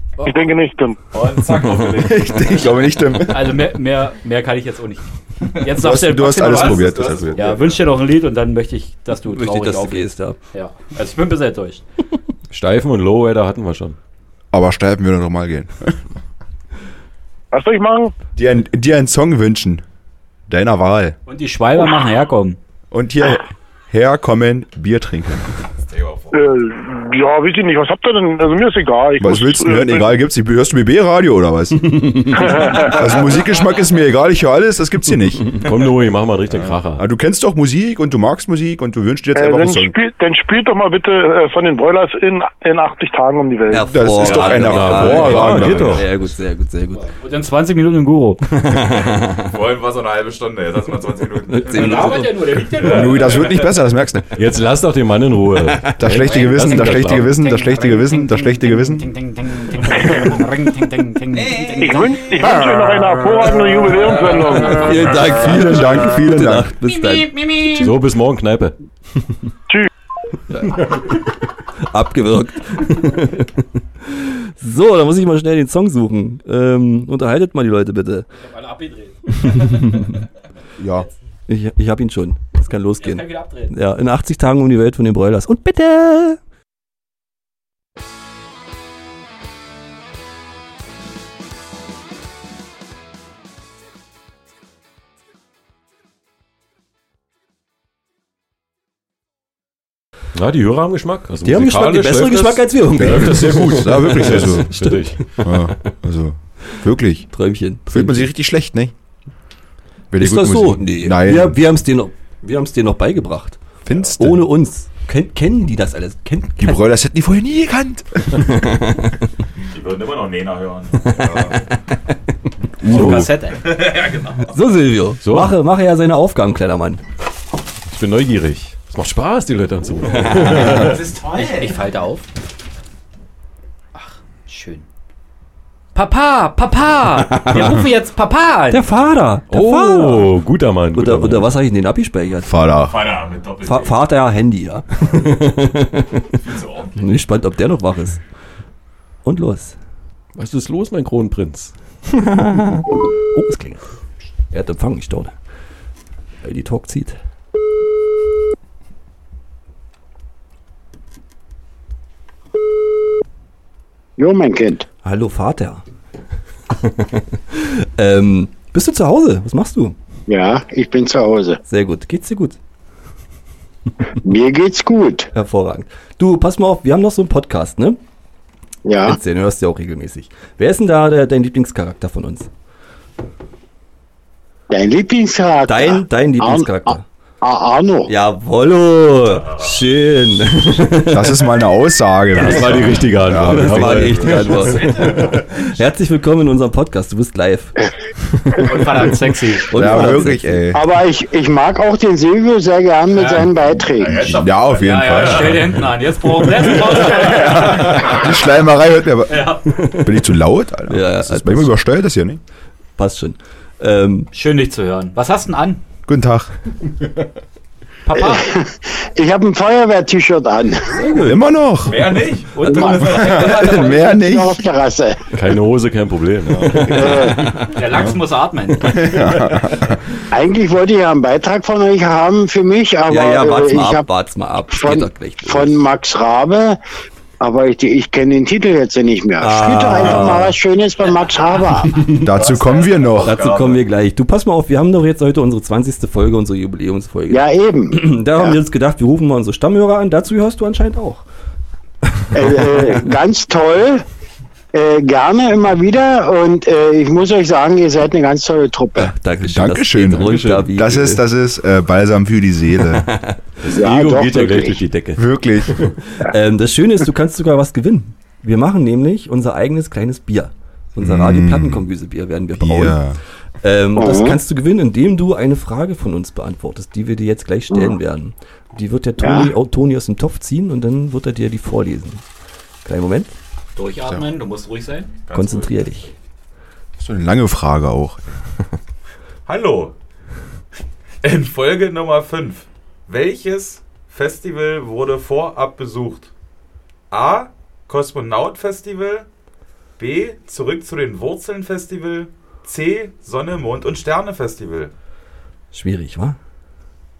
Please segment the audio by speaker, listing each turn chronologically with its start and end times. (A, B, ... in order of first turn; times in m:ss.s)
0:00.2-0:00.4 A
0:00.2-0:01.0 B
0:01.1-0:02.7 C
0:01.9-0:03.6 D
0:03.3-0:05.0 A
0:05.6-0:11.8 A
0:05.7-0:07.4 D
0:06.3-0:07.8 C
0:09.3-0:10.4 E
0:12.5-0:14.0 F
0:14.5-0:16.0 D
0:17.5-0:18.1 B
0:18.4-0:19.8 D
0:20.5-0:21.1 D
0:21.2-0:22.6 A
0:22.9-0:25.5 D
0:25.8-0:26.5 C
0:26.3-0:30.1 B
0:29.2-0:35.6 D
0:32.0-0:32.3 E
0:32.4-0:33.0 B
0:35.6-0:37.0 F
0:36.8-0:39.9 D
0:39.3-0:43.9 B
0:43.7-0:47.0 E
0:43.8-0:46.0 D
0:44.4-0:46.1 F
0:46.9-0:48.4 A
0:48.5-0:49.5 E
0:49.4-0:52.1 C
0:51.5-0:52.5 E
0:51.6-0:53.6 A
0:52.8-0:54.3 D
0:54.3-0:57.3 F
0:56.0-0:59.1 D
0:56.1-1:02.7 A
1:01.4-1:02.5 C
1:01.8-1:05.1 B
1:04.0-1:04.4 C
1:04.7-1:07.8 E
1:05.2-1:06.7 D
1:07.0-1:07.8 A
1:07.6-1:08.7 F
1:10.5-1:11.0 E
1:11.9-1:18.3 E
1:18.3-1:20.2 A
1:20.8-1:21.1 D
1:21.5-1:26.4 E
1:23.0-1:23.7 A
1:40.3-1:45.3 F
1:41.4-1:45.1 E
1:43.0-1:44.8 D
1:45.4-1:47.3 D
1:47.3-1:48.3 E
1:47.9-1:48.9 D
1:50.1-1:51.6 D
1:50.2-1:53.6 E
1:53.8-1:54.5 D
1:54.2-1:56.8 E
1:56.6-1:58.4 D
1:58.4-1:59.1 E
1:59.6-2:01.6 C
2:01.2-2:01.4 E
2:02.8-2:03.3 D
2:02.9-2:03.8 A
2:03.6-2:04.6 C
2:04.5-2:07.0 E
2:05.2-2:05.5 F
2:07.9-2:11.0 F
2:10.2-2:11.8 C
2:11.2-2:12.2 A
2:13.9-2:14.8 A
2:15.9-2:18.9 A
2:17.4-2:17.7 E
2:18.7-2:20.3 E
2:19.5-2:21.5 F
2:20.9-2:22.5 E
2:22.4-2:23.0 D
2:22.8-2:24.0 C
2:23.6-2:26.4 E
2:26.4-2:27.0 C
2:27.0-2:28.2 E
2:29.2-2:29.8 E
2:30.4-2:31.7 F
2:32.2-2:33.8 E
2:34.5-2:35.3 E
2:36.4-2:37.2 E
2:44.2-2:44.8 G
2:45.0-2:45.8 E
2:46.8-2:50.0 E
2:50.3-2:51.6 G
2:51.6-2:52.6 E
2:54.2-2:55.3 G
2:55.3-2:58.0 E
2:58.8-2:59.2 G
2:59.0-3:02.5 E
3:04.7-3:08.1 G
3:05.7-3:07.0 E
3:08.1-3:11.4 E
3:11.1-3:14.6 D
3:12.3-3:14.9 F
3:13.4-3:17.7 E
3:14.8-3:15.2 C
3:18.6-3:19.7 A
3:19.7-3:20.6 E
3:19.7-3:20.8 D
3:20.7-3:24.3 G
3:23.2-3:23.5 A
3:24.0-3:25.5 C
3:24.2-3:25.8 D
3:24.6-3:28.2 A
3:26.9-3:32.4 D
3:29.3-3:29.7 A
3:30.9-3:31.8 E
3:33.0-3:34.3 E
3:34.3-3:35.8 A
3:36.1-3:36.5 D
3:38.0-3:38.4 A
3:38.1-3:41.0 G
3:40.9-3:41.4 E
3:41.2-3:42.1 D
3:41.8-3:43.2 C
3:42.5-3:44.1 A
3:42.7-3:43.0 G
3:42.9-3:44.6 D
3:43.9-3:45.2 G
3:45.3-3:47.2 F
3:46.9-3:47.6 G
3:47.7-3:49.2 A
3:48.8-3:50.0 D
3:50.3-3:54.1 G
3:53.1-3:55.8 E
3:54.7-3:56.8 G
3:57.4-4:02.0 G
3:59.4-4:00.6 E
4:02.1-4:03.4 D
4:02.2-4:03.8 C
4:03.2-4:11.2 E
4:07.3-4:08.6 G
4:12.3-4:14.0 G
4:14.7-4:19.1 G
4:19.0-4:21.2 E
4:19.4-4:23.1 D
4:23.1-4:23.4 E
4:23.6-4:25.9 F
4:23.7-4:24.8 G
4:25.2-4:25.8 D
4:26.3-4:33.0 E
4:31.0-4:31.9 D
4:32.6-4:33.2 D
4:33.6-4:42.2 E
4:34.0-4:34.4 G
4:39.2-4:39.5 G
4:42.8-4:43.3 E
4:43.8-4:45.2 A
4:45.2-4:45.9 C
4:45.3-4:46.1 E
4:47.0-4:48.2 D
4:49.4-4:49.9 C
4:51.2-4:56.3 C
4:57.1-4:59.3 C
5:00.0-5:04.9 C
5:05.7-5:06.4 E